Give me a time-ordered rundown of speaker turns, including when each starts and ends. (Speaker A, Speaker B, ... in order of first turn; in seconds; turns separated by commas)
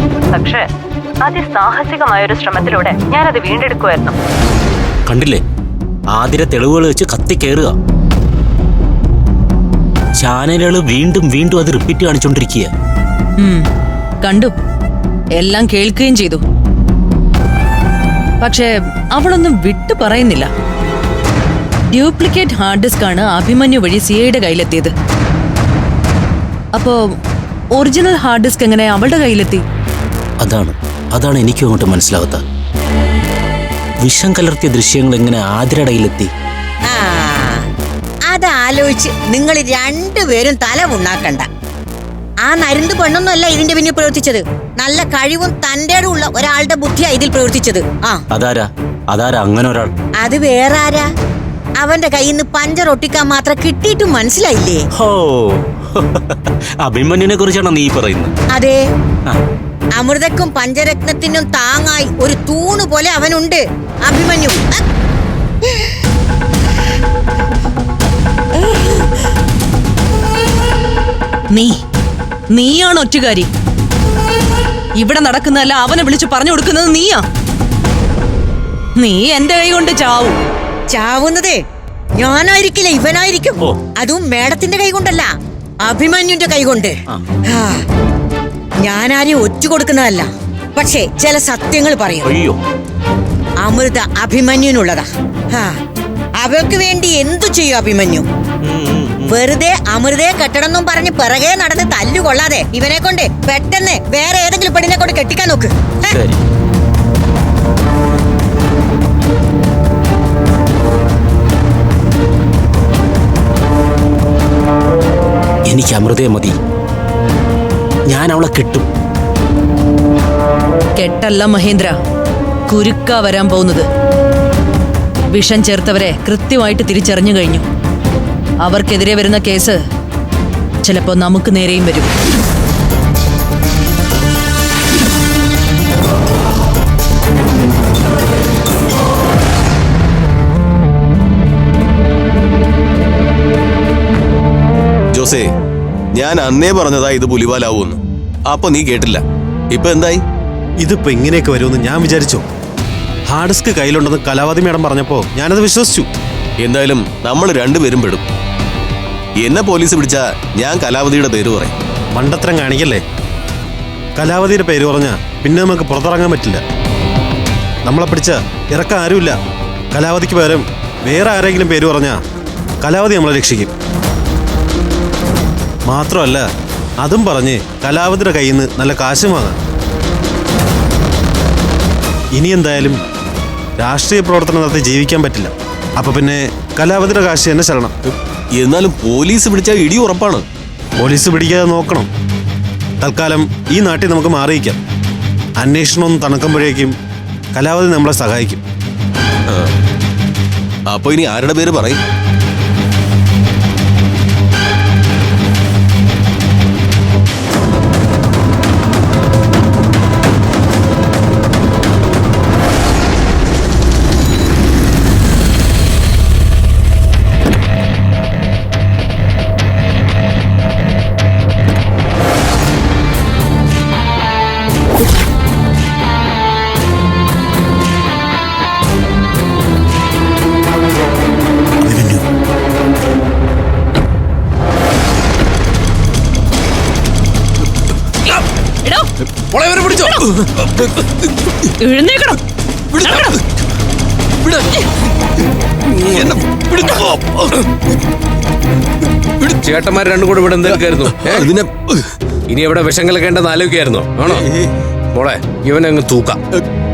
Speaker A: 0.3-0.7, Speaker A: 1.2-4.2, Speaker B: 5.1-5.4, Speaker B: 6.1-7.8, Speaker B: 10.2-12.7, Speaker C: 13.4-13.7, Speaker C: 14.2-14.5, Speaker C: 15.4-16.4, Speaker C: 18.4-20.5, Speaker C: 21.9-24.9, Speaker C: 26.7-27.0, Speaker C: 27.8-29.6, Speaker B: 30.4-32.4, Speaker B: 34.0-36.3, Speaker D: 36.9-37.6, Speaker D: 38.3-41.5, Speaker D: 42.5-48.2, Speaker B: 48.3-49.9, Speaker D: 50.2-51.1, Speaker D: 51.8-54.9, Speaker B: 55.0-58.3, Speaker D: 58.5-58.8, Speaker D: 60.0-64.8, Speaker C: 71.5-71.8, Speaker C: 72.5-73.5, Speaker C: 75.0-77.3, Speaker C: 79.0-80.4, Speaker D: 80.9-81.6, Speaker D: 82.2-85.3, Speaker D: 85.8-87.0, Speaker D: 87.5-87.8, Speaker D: 88.8-92.3, Speaker B: 92.2-92.6, Speaker D: 93.6-95.7, Speaker D: 96.4-98.2, Speaker B: 98.6-99.4, Speaker D: 99.3-106.2, Speaker B: 106.1-106.4, Speaker B: 115.7-116.6, Speaker B: 118.1-118.9, Speaker C: 121.0-122.0, Speaker C: 122.7-123.9, Speaker C: 125.3-127.7, Speaker C: 128.6-129.8, Speaker C: 130.8-132.1, Speaker E: 145.1-145.5, Speaker E: 146.2-150.2, Speaker F: 150.8-152.4, Speaker F: 153.3-156.1, Speaker E: 156.6-158.2, Speaker E: 159.4-161.7, Speaker F: 162.2-163.0, Speaker F: 164.2-166.6, Speaker F: 167.9-169.4, Speaker F: 169.9-172.2, Speaker F: 172.8-173.7, Speaker F: 175.9-176.5, Speaker F: 177.0-179.6, Speaker F: 182.3-183.0, Speaker F: 183.8-187.9, Speaker E: 188.6-190.4, Speaker F: 191.0-192.1, Speaker F: 193.0-194.8, Speaker F: 195.6-196.9, Speaker F: 197.6-198.6, Speaker E: 200.9-202.0, Speaker C: 238.8-239.1, Speaker G: 239.5-240.2, Speaker C: 239.9-240.2, Speaker C: 241.8-242.4, Speaker E: 242.9-243.3, Speaker C: 243.0-243.4, Speaker E: 246.1-247.5, Speaker G: 249.6-251.5, Speaker E: 250.6-252.0, Speaker G: 252.5-254.4, Speaker E: 254.3-254.7, Speaker G: 255.1-256.4